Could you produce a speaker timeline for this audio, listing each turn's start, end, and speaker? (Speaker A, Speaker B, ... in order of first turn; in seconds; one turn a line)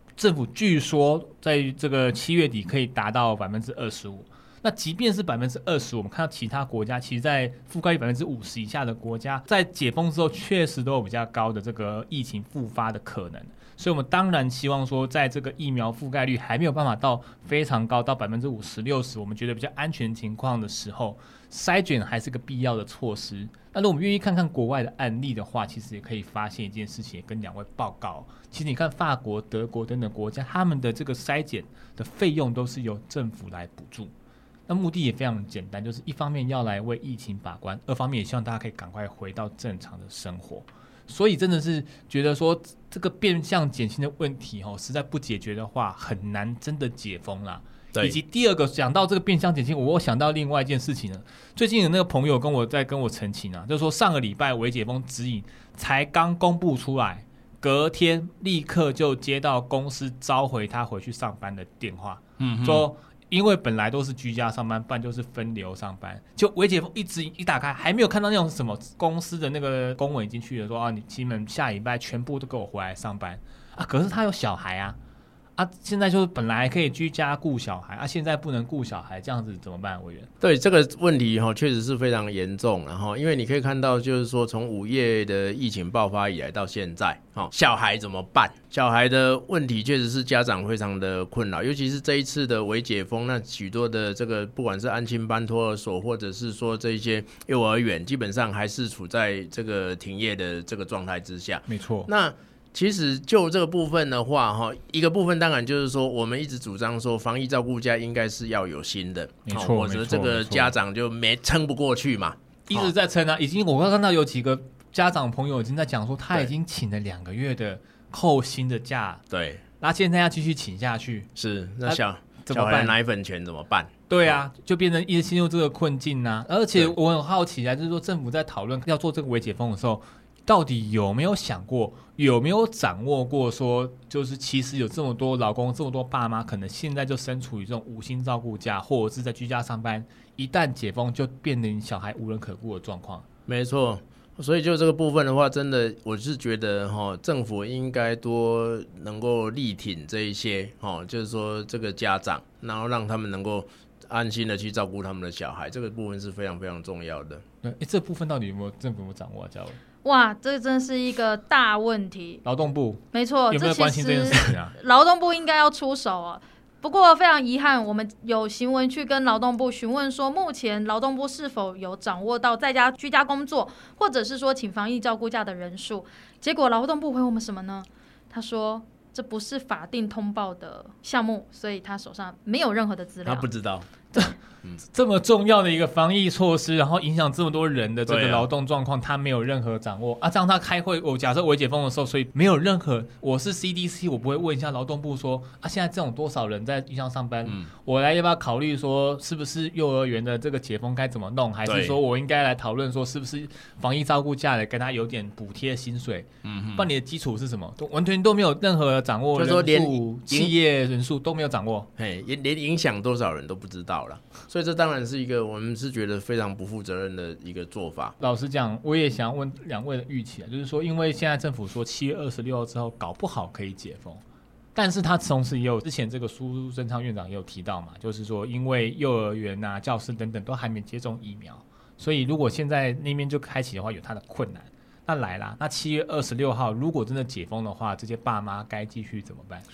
Speaker A: 0.2-34.1
Speaker A: 34.7-75.0
Speaker B: 62.4-62.9
Speaker A: 75.6-80.3
Speaker B: 80.4-112.9
Speaker A: 101.7-102.1
Speaker A: 109.5-110.7
Speaker A: 112.7-119.2
Speaker B: 119.3-119.6
Speaker A: 119.8-121.3
Speaker B: 121.4-124.4
Speaker A: 121.8-122.9
Speaker A: 124.1-143.2
Speaker B: 143.5-157.4
Speaker A: 157.6-159.8
Speaker C: 160.0-162.4
Speaker A: 162.4-164.8
Speaker C: 163.1-183.5
Speaker B: 183.2-183.9
Speaker A: 184.1-211.9
Speaker B: 188.1-188.5
Speaker B: 197.4-197.7
Speaker B: 201.7-202.0
Speaker B: 206.4-206.9
Speaker B: 209.3-210.6
Speaker B: 212.0-218.1
Speaker A: 218.2-224.2
Speaker A: 224.8-239.6